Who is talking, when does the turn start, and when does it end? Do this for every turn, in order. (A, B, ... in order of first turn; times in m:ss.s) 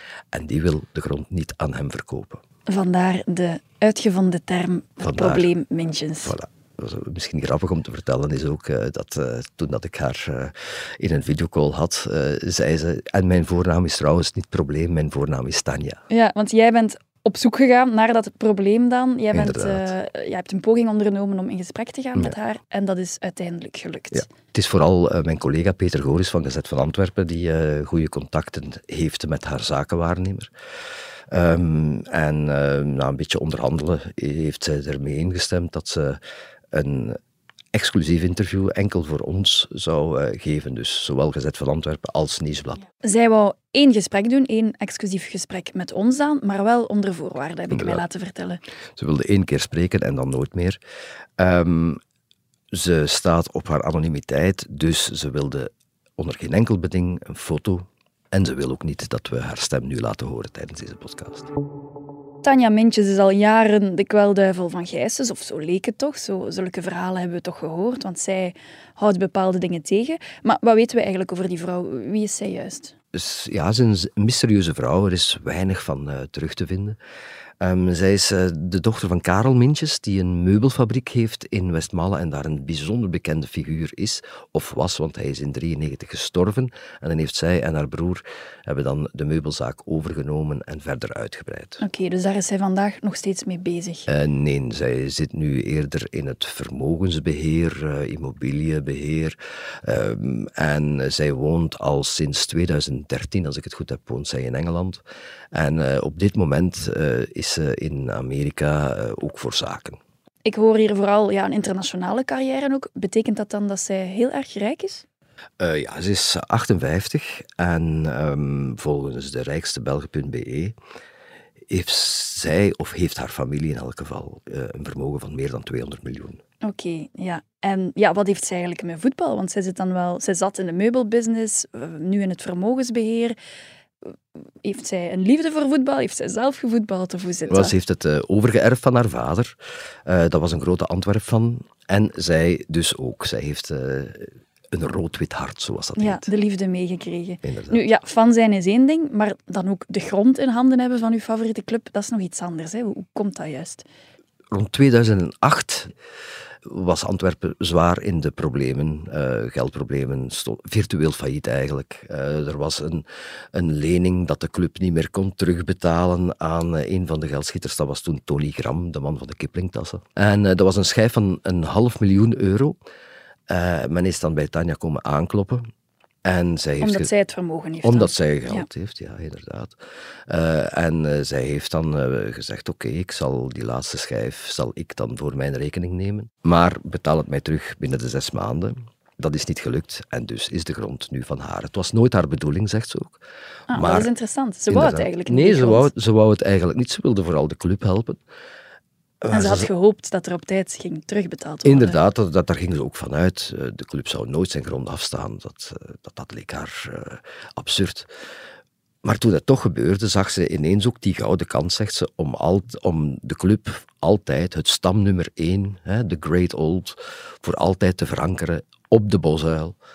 0:00.3-0:02.4 A
0:02.7-0:06.3 B
0:05.0-0:05.5 A
0:06.2-0:16.0 A
0:16.1-0:24.2 B
0:19.3-0:19.9 A
0:24.1-0:30.5 A
0:31.3-0:36.2 A
0:36.7-0:37.2 A
0:37.7-0:42.8 A
0:43.0-0:48.6 B
0:47.7-0:48.0 A
0:49.0-0:50.8 A
0:51.4-0:52.0 A
0:52.7-1:01.5 A
1:02.4-1:12.9 B
1:13.1-1:17.0 A
1:17.6-1:31.8 A
1:31.8-1:34.0 B
1:34.1-1:45.0 A
1:45.5-1:50.0 A
1:50.4-1:55.0 B
1:55.6-2:00.8 A
2:01.7-2:06.4 A
2:06.6-2:13.4 B
2:14.1-2:17.7 B
2:17.5-2:19.5 A
2:20.0-2:26.3 A
2:26.0-2:33.8 B
2:27.4-2:27.8 A
2:34.5-2:35.9 A
2:36.6-2:52.8 A
2:53.5-2:55.6 A
2:56.2-2:57.1 A
2:56.8-2:58.7 B
2:57.8-2:59.7 A
3:00.3-3:14.1 A
3:13.7-3:15.9 B
3:14.7-3:18.2 A
3:19.2-3:19.7 A
3:19.3-3:22.0 B
3:21.6-3:28.1 A
3:29.0-3:39.8 A